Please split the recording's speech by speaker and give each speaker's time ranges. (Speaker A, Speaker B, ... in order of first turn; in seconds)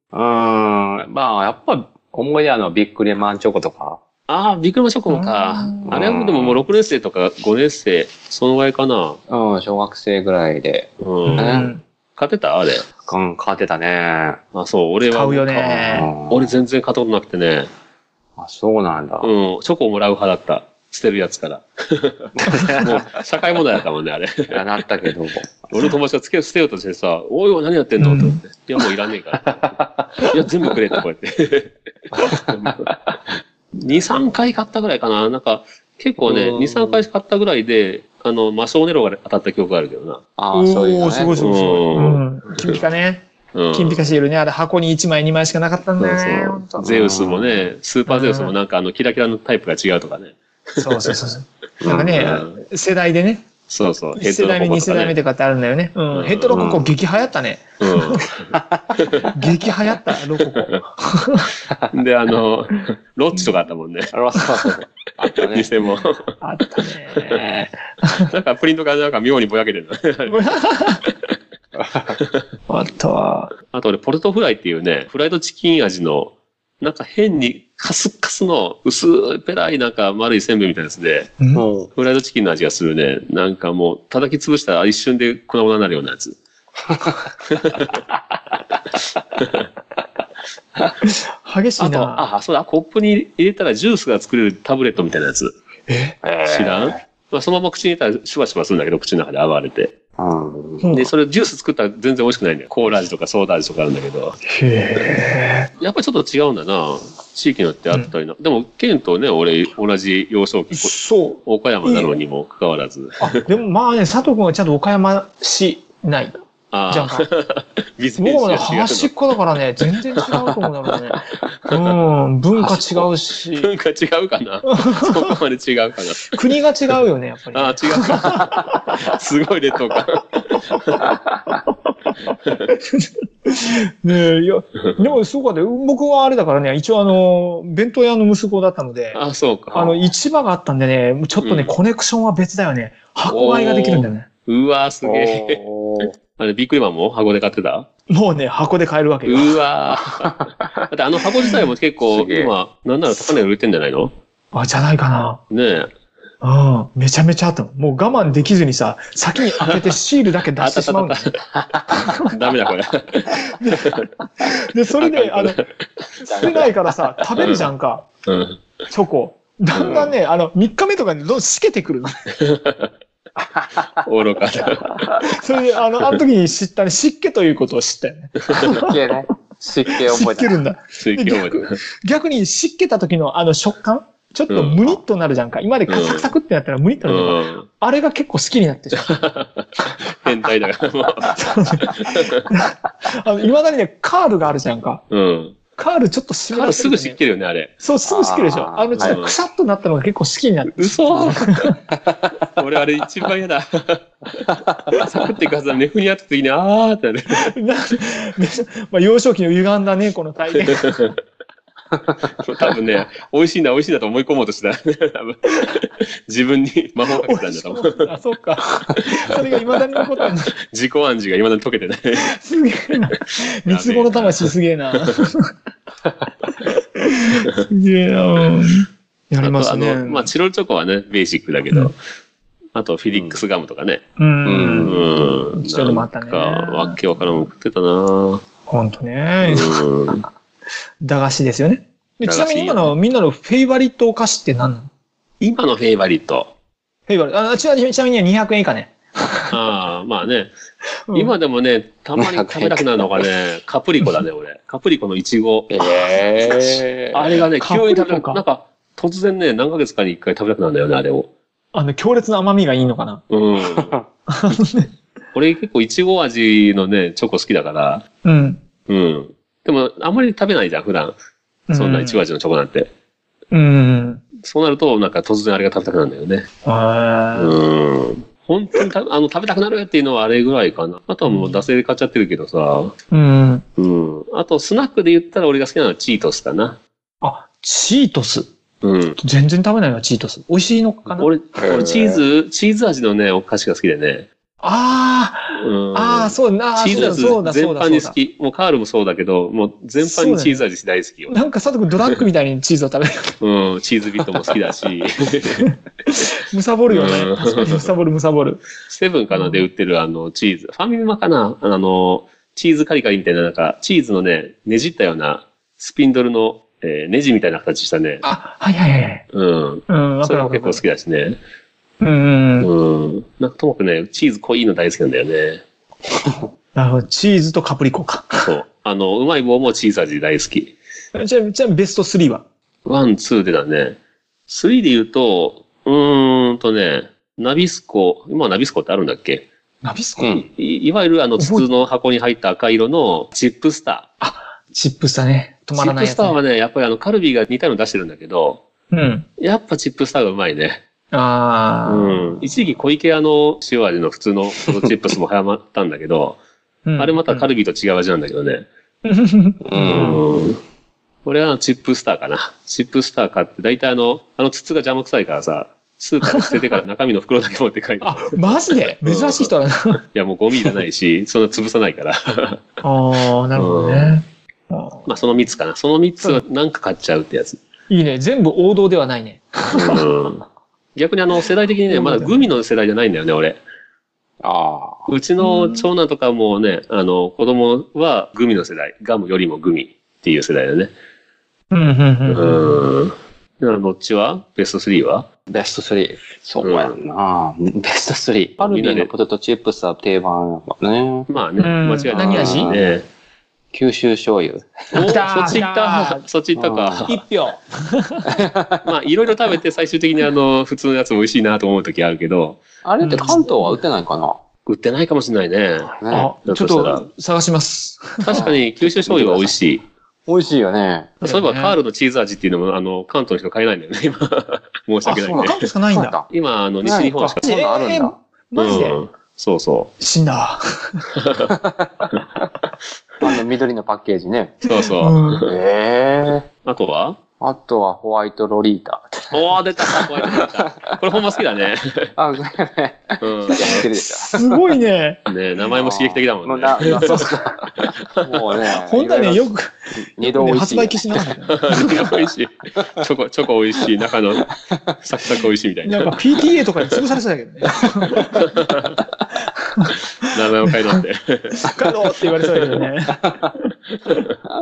Speaker A: 0.1-4.0, 5.9-6.6, 9.3-11.7, 13.0-14.4, 15.8-16.6, 18.4-19.3, 22.4-23.2, 24.5-25.5, 29.4-31.0, 32.1-33.2, 36.2-37.0, 40.4-41.4, 46.8-47.7, 51.8-52.4, 56.5-56.9, 58.5-59.0, 64.1-65.7, 71.8-72.2, 81.5-81.9, 96.2-97.0, 100.2-100.9, 145.0-146.1, 150.2-150.8, 152.1-152.5, 166.2-166.7, 173.4-173.9, 178.6-180.6, 198.1-199.2, 233.1-233.4, 234.4-235.1, 252.2-253.3, 255.7-257.4, 263.6-264.1, 291.6-292.2, 340.2-340.5, 359.6-360.3, 384.4-385.1, 395.5-401.3, 402.1-403.0, 403.7-405.2, 406.6-407.1, 408.4-408.8, 412.8-414.4, 416.0-416.3, 418.3-419.6, 420.3-421.1, 425.2-426.3, 427.4-428.1, 431.5-432.1, 433.2-434.6, 435.4-436.5, 437.4-441.0, 442.2-444.6, 445.7-451.1, 454.6-454.9, 463.2-463.5
Speaker B: 4.3-9.2, 11.0-12.9, 14.5-17.7, 19.2-24.6, 25.7-32.9, 33.8-40.2, 41.4-42.8, 43.5-44.0, 46.0-51.1, 52.1-52.6, 53.7-55.2, 56.1-56.6, 57.8-59.3, 60.5-60.8, 61.9-64.1, 65.4-67.4, 68.3-70.5, 72.2-72.4, 73.7-81.3, 82.0-86.4, 87.5-88.0, 89.4-89.7, 91.8-95.5, 96.5-99.9, 100.9-104.4, 105.8-113.4, 116.7-119.2, 120.2-120.5, 121.6-122.0, 122.6-126.4, 127.5-131.1, 139.1-140.0, 141.4-141.7, 143.3-145.6, 146.4-147.9, 149.3-154.1, 155.5-155.9, 160.6-164.0, 165.0-166.7, 167.4-167.7, 168.3-168.7, 169.7-170.1, 172.4-172.9, 174.0-175.2, 181.0-181.8, 184.5-185.0, 185.9-186.3, 187.0-187.7, 189.0-192.4, 195.1-195.6, 196.5-197.7, 199.0-199.3, 200.7-201.7, 202.5-207.5, 210.7-211.1, 212.4-218.1, 219.1-219.4, 220.7-222.3, 223.7-225.0, 229.4-232.0, 232.8-234.0, 234.8-238.4, 239.4-240.2, 242.2-242.9, 245.4-246.5, 249.5-250.5, 251.1-256.2, 257.1-261.3, 263.3-263.9, 265.4-268.1, 268.9-271.1, 271.8-272.9, 274.4-276.5, 277.4-282.9, 283.8-286.8, 288.8-289.2, 291.1-294.3, 295.5-301.3, 303.4-305.7, 306.9-307.9, 308.9-318.2, 319.3-321.4, 322.6-325.6, 328.4-330.7, 332.9-334.0, 334.5-339.5, 340.3-344.1, 345.8-348.6, 349.4-350.8, 351.9-356.4, 357.0-358.7, 359.8-360.6, 361.2-369.5, 370.1-372.6, 373.6-374.2, 375.1-377.6, 379.7-380.4, 381.0-383.6, 385.1-390.9, 392.3-395.3, 396.6-396.9, 398.6-399.1, 401.3-403.1, 404.9-407.2, 408.8-412.6, 414.7-417.1, 418.2-419.9, 421.2-425.6, 426.3-427.4, 428.6-429.9, 431.2-431.5, 434.7-435.5, 436.6-437.2, 439.3-442.1, 443.2-443.9, 445.3-447.3, 451.5-456.2, 458.3-458.9, 460.3-461.9, 464.1-464.4
Speaker C: 5.1-6.0, 11.3-11.8, 15.1-16.1, 28.0-28.4, 40.5-46.8, 48.1-48.6, 50.8-53.5, 54.2-58.3, 59.3-61.5, 66.4-68.3, 70.3-71.0, 72.7-73.5, 91.0-92.2, 95.9-96.2, 100.8-101.1, 104.5-105.7, 110.7-112.1, 113.2-116.3, 116.9-117.3, 118.2-123.7, 124.7-125.4, 126.3-129.2, 130.7-131.1, 131.7-139.2, 139.7-144.3, 148.1-149.5, 154.5-155.4, 156.4-161.3, 161.9-162.3, 163.3-165.6, 166.3-168.1, 168.9-172.3, 175.2-178.9, 179.9-189.1, 191.3-195.0, 195.8-197.2, 197.8-201.8, 207.3-211.1, 217.2-220.5, 222.2-225.5, 226.6-230.3, 234.2-237.5, 238.7-239.8, 241.0-244.9, 247.1-249.5, 251.1-251.3, 257.6-258.4, 261.7-263.2, 264.3-264.9, 268.2-268.6, 271.7-272.2, 273.5-274.2, 276.6-277.6, 281.3-281.7, 283.1-283.6, 287.2-288.5, 289.2-291.3, 294.6-298.2, 300.0-300.6, 301.3-303.4, 305.6-308.7, 309.3-309.7, 318.2-319.2, 319.9-320.8, 322.0-322.7, 326.8-328.5, 331.1-332.4, 339.8-340.3, 341.4-341.7, 344.2-346.4, 348.9-349.3, 351.1-352.4, 356.9-357.5, 359.1-360.2, 368.0-370.0, 372.8-375.1, 377.9-380.0, 381.9-382.4, 385.4-385.9, 391.7-392.9, 401.6-402.7, 405.0-406.2, 407.1-408.4, 413.0-413.7, 416.1-418.4, 421.2-421.8, 425.1-426.2, 426.8-429.0, 430.0-431.0, 434.7-435.5, 443.7-445.2, 446.9-447.4, 448.7-452.1, 455.9-458.5, 459.6-461.0, 461.6-463.7